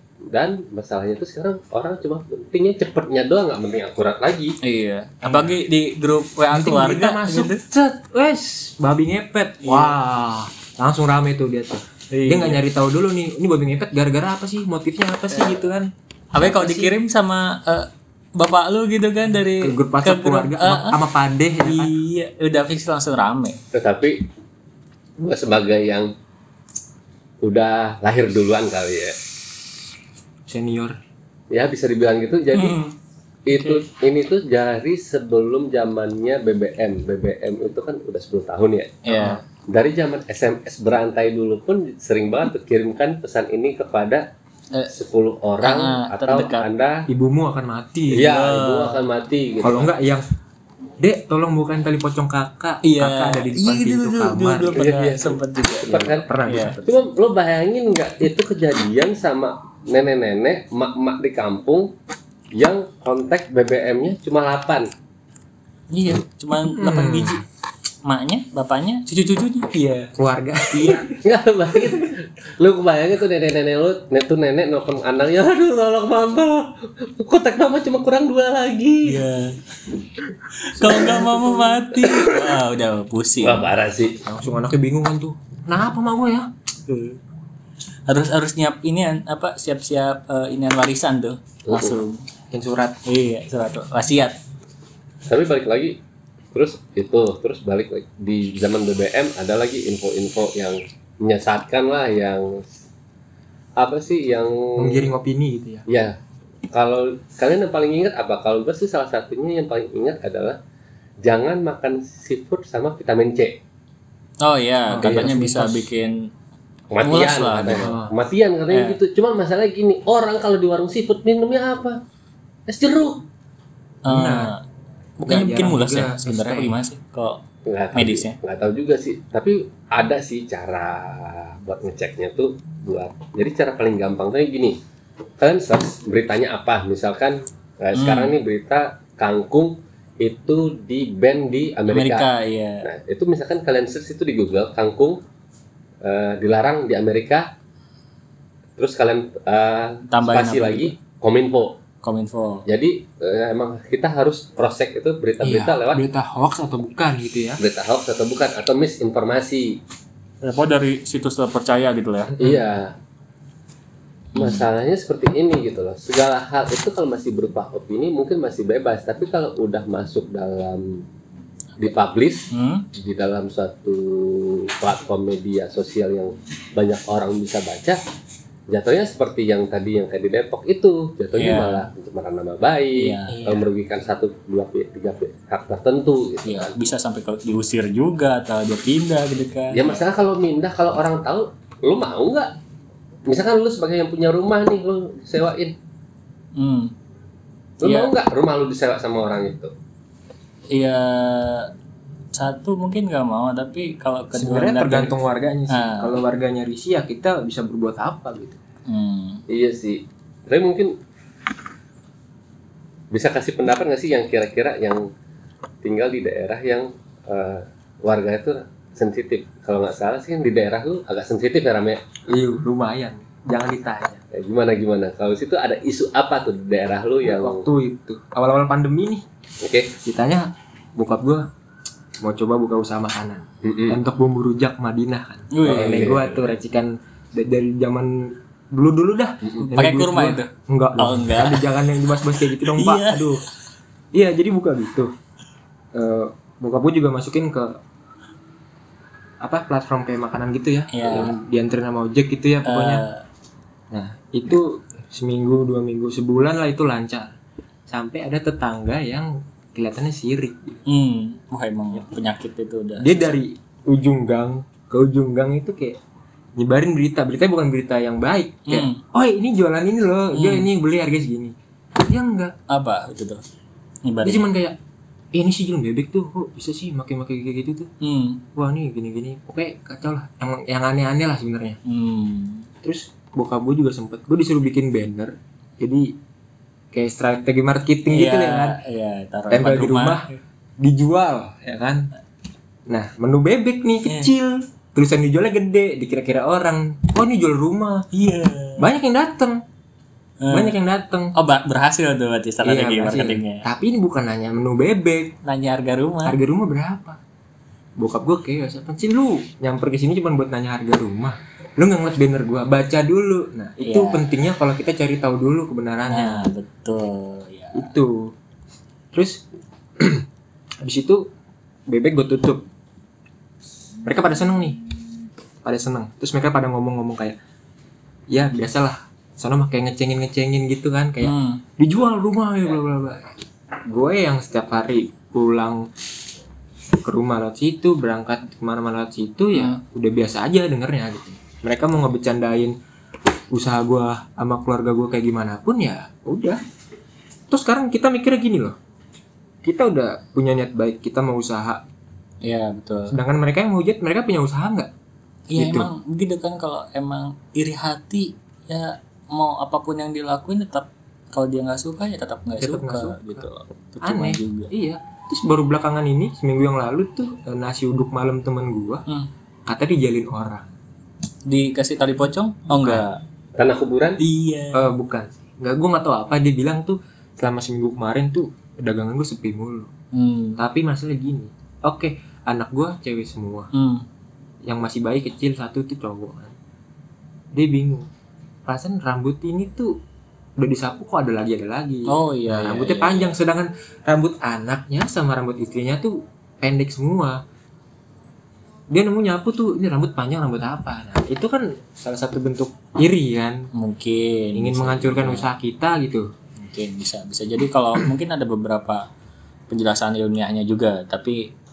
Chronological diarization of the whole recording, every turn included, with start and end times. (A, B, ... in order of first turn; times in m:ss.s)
0:00.3-0:04.6 A
0:04.6-0:07.6 B
0:05.2-0:05.6 C
0:06.5-0:17.0 C
0:09.6-0:09.9 B
0:12.1-0:12.6 B
0:15.3-0:15.6 B
0:16.3-0:21.0 B
0:19.6-0:22.0 C
0:21.6-0:23.6 B
0:23.7-0:24.2 A
0:25.2-0:26.1 A
0:27.4-0:29.1 A
0:30.5-0:31.0 C
0:31.5-0:32.8 A
0:32.5-0:32.9 B
0:33.5-0:44.2 A
0:33.5-0:33.8 B
0:39.0-0:39.4 B
0:44.9-0:47.1 A
0:45.6-0:46.7 B
0:47.1-0:48.4 C
0:48.1-0:49.9 A
0:48.2-0:49.0 B
0:49.6-0:50.2 C
0:51.0-0:54.8 C
0:52.8-0:56.8 B
0:54.7-0:56.3 A
0:56.1-0:56.9 C
0:56.8-1:01.9 A
1:02.5-1:04.9 A
1:05.9-1:07.4 B
1:06.6-1:07.4 C
1:08.0-1:10.1 B
1:10.1-1:11.1 C
1:11.2-1:19.2 A
1:19.0-1:19.5 B
1:20.6-1:23.7 B
1:20.8-1:21.8 C
1:22.0-1:22.3 A
1:23.4-1:24.2 A
1:24.2-1:26.5 C
1:26.8-1:27.2 B
1:28.1-1:32.2 B
1:31.7-1:32.0 A
1:32.5-1:33.0 C
1:33.0-1:34.4 B
1:35.3-1:36.0 A
1:36.5-1:42.7 A
1:43.8-1:45.1 A
1:44.8-1:45.8 C
1:45.9-1:46.1 A
1:46.7-1:50.6 A
1:51.2-1:53.6 A
1:54.4-1:56.1 B
1:54.9-1:55.9 C
1:55.0-1:55.4 A
1:56.9-2:02.0 A
1:57.0-1:58.0 B
1:57.8-1:58.1 C
1:58.7-1:59.0 B
2:02.7-2:03.2 A
2:04.0-2:04.6 B
2:04.1-2:04.5 C
2:05.2-2:07.4 B
2:05.2-2:06.8 C
2:07.6-2:14.8 A
2:07.9-2:08.4 B
2:15.4-2:22.3 A
2:17.9-2:18.4 B
2:21.9-2:22.8 B
2:22.8-2:25.2 A
2:26.0-2:27.5 A
2:28.8-2:31.8 A
2:30.1-2:30.9 B
2:32.0-2:32.6 B
2:32.6-2:36.1 A
2:35.4-2:37.6 C
2:37.6-2:39.8 A
2:40.4-2:42.4 B
2:42.4-2:42.9 A
2:44.3-2:51.0 A
2:44.4-2:44.6 B
2:51.8-2:58.0 A
2:52.5-2:52.8 B
2:58.7-3:06.7 A
3:01.3-3:01.9 B
3:03.0-3:03.4 B
3:03.3-3:03.7 C
3:06.4-3:10.0 B
3:09.7-3:12.5 A
3:13.3-3:15.8 A
3:16.6-3:16.9 B
3:17.8-3:18.1 B
3:17.8-3:19.7 A
3:20.7-3:21.7 B
3:22.3-3:25.1 B
3:24.3-3:28.6 C
3:25.7-3:26.1 B
3:28.9-3:29.4 B
3:29.5-3:30.9 A
3:33.1-3:35.0 A
3:35.8-3:42.0 A
3:42.3-3:44.2 C
3:44.3-3:47.6 A
3:47.2-3:49.2 C
3:49.6-3:49.9 A
3:50.0-3:51.5 C
3:52.2-4:03.4 C
3:53.6-3:54.0 A
3:55.5-3:56.2 B
3:55.6-3:56.4 A
3:59.4-3:59.7 A
3:59.7-4:01.8 B
4:02.4-4:03.4 B
4:04.1-4:05.1 C
4:05.9-4:07.8 C
4:09.4-4:13.1 C
4:10.9-4:11.3 B
4:12.6-4:13.2 B
4:13.9-4:17.4 C
4:17.9-4:20.8 C
4:20.8-4:23.4 B
4:23.0-4:26.0 C
4:26.6-4:32.5 C
4:28.7-4:29.0 B
4:30.3-4:30.7 B
4:32.7-4:33.4 B
4:34.0-4:34.5 B
4:34.2-4:34.8 C
4:35.3-4:37.9 C
4:38.0-4:38.4 B
4:38.6-4:41.8 C
4:41.8-4:42.7 B
4:42.8-4:46.2 C
4:46.9-4:48.8 C
4:48.1-4:50.4 B
4:49.5-4:50.3 C
4:50.8-4:52.1 C
4:52.9-4:58.0 C
4:54.0-4:54.3 B
4:58.1-4:58.9 B
4:58.8-4:59.6 C
5:00.4-5:00.7 B
5:00.5-5:01.3 C
5:01.3-5:03.6 B
5:02.6-5:05.3 C
5:05.4-5:06.4 B
5:06.2-5:07.2 C
5:08.0-5:16.5 C
5:13.8-5:14.3 B
5:16.1-5:17.9 B
5:17.7-5:18.3 C
5:19.1-5:19.4 C
5:20.0-5:20.2 C
5:20.8-5:21.3 C
5:21.9-5:22.6 C
5:24.0-5:24.8 C
5:25.6-5:27.4 C
5:28.3-5:33.3 C
5:31.2-5:31.6 B
5:33.9-5:35.8 C
5:37.0-5:42.7 C
5:39.5-5:39.8 B
5:43.5-5:46.6 C
5:47.5-5:48.8 C
5:49.6-5:51.8 C
5:52.4-5:53.1 B
5:53.1-5:54.9 C
5:55.5-6:04.7 B
5:55.6-5:55.9 C
6:02.6-6:03.4 C
6:04.0-6:09.0 C
6:09.7-6:10.7 C
6:11.5-6:13.2 B
6:12.8-6:13.1 C
6:13.6-6:14.2 A
6:14.2-6:14.9 B
6:14.7-6:19.9 C
6:20.1-6:20.6 B
6:20.6-6:23.7 C
6:23.7-6:24.0 B
6:24.6-6:26.5 C
6:27.5-6:28.1 C
6:28.7-6:29.9 C
6:30.6-6:37.4 C
6:32.1-6:33.3 B
6:38.9-6:43.7 C
6:43.7-6:45.5 B
6:44.5-6:46.3 C
6:46.6-6:49.0 B
6:49.7-6:51.5 B